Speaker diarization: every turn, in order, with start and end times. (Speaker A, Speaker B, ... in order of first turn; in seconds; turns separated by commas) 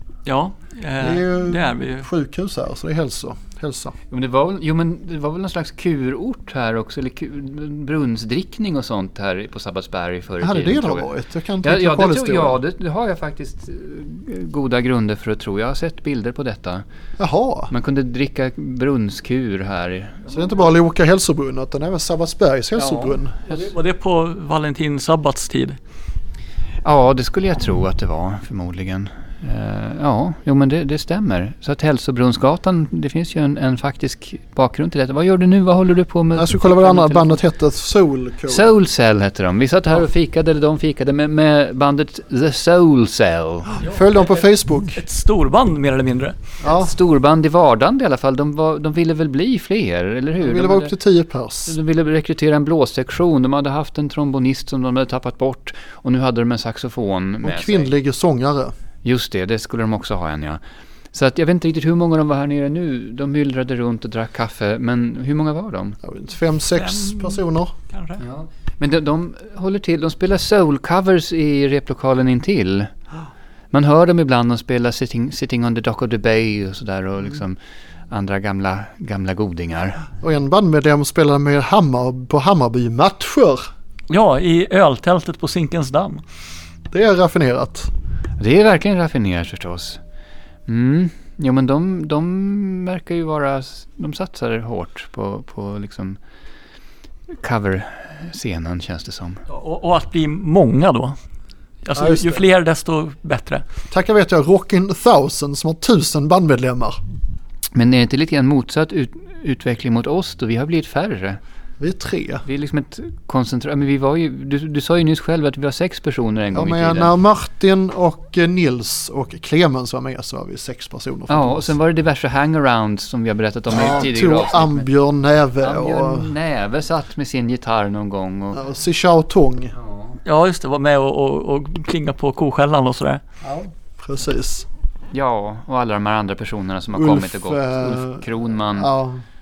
Speaker A: 0.2-2.1, Speaker B: 1.0-4.0, Speaker C: 4.1-16.8, Speaker B: 10.4-12.6, Speaker B: 17.2-17.7, Speaker C: 17.7-20.3, Speaker B: 20.2-23.4, Speaker C: 22.7-23.7, Speaker A: 23.4-25.8, Speaker C: 26.8-37.4, Speaker B: 36.4-38.8, Speaker C: 38.4-43.8, Speaker B: 43.8-45.0, Speaker A: 43.8-46.5, Speaker C: 46.6-51.0, Speaker B: 46.6-46.9, Speaker B: 50.4-51.8, Speaker C: 51.7-57.9, Speaker B: 57.4-58.7, Speaker C: 59.0-60.6, Speaker C: 61.1-66.0, Speaker B: 66.0-67.7, Speaker A: 66.8-68.2, Speaker C: 68.2-72.9, Speaker C: 73.7-77.6, Speaker C: 78.1-80.1, Speaker B: 80.1-83.7, Speaker A: 84.1-86.2, Speaker B: 86.9-87.9, Speaker C: 88.4-90.0, Speaker C: 90.7-96.2, Speaker C: 97.3-99.4, Speaker A: 99.5-101.2, Speaker A: 101.8-103.6, Speaker B: 101.9-102.4, Speaker B: 103.9-107.0, Speaker C: 107.7-111.4, Speaker B: 111.8-112.4, Speaker C: 112.4-117.2, Speaker B: 116.5-121.7, Speaker C: 121.3-124.9, Speaker B: 123.7-126.3, Speaker C: 125.6-128.6, Speaker B: 128.5-129.7, Speaker C: 129.7-130.2, Speaker A: 130.2-133.2, Speaker B: 133.4-134.7, Speaker C: 135.1-138.9, Speaker B: 136.9-139.2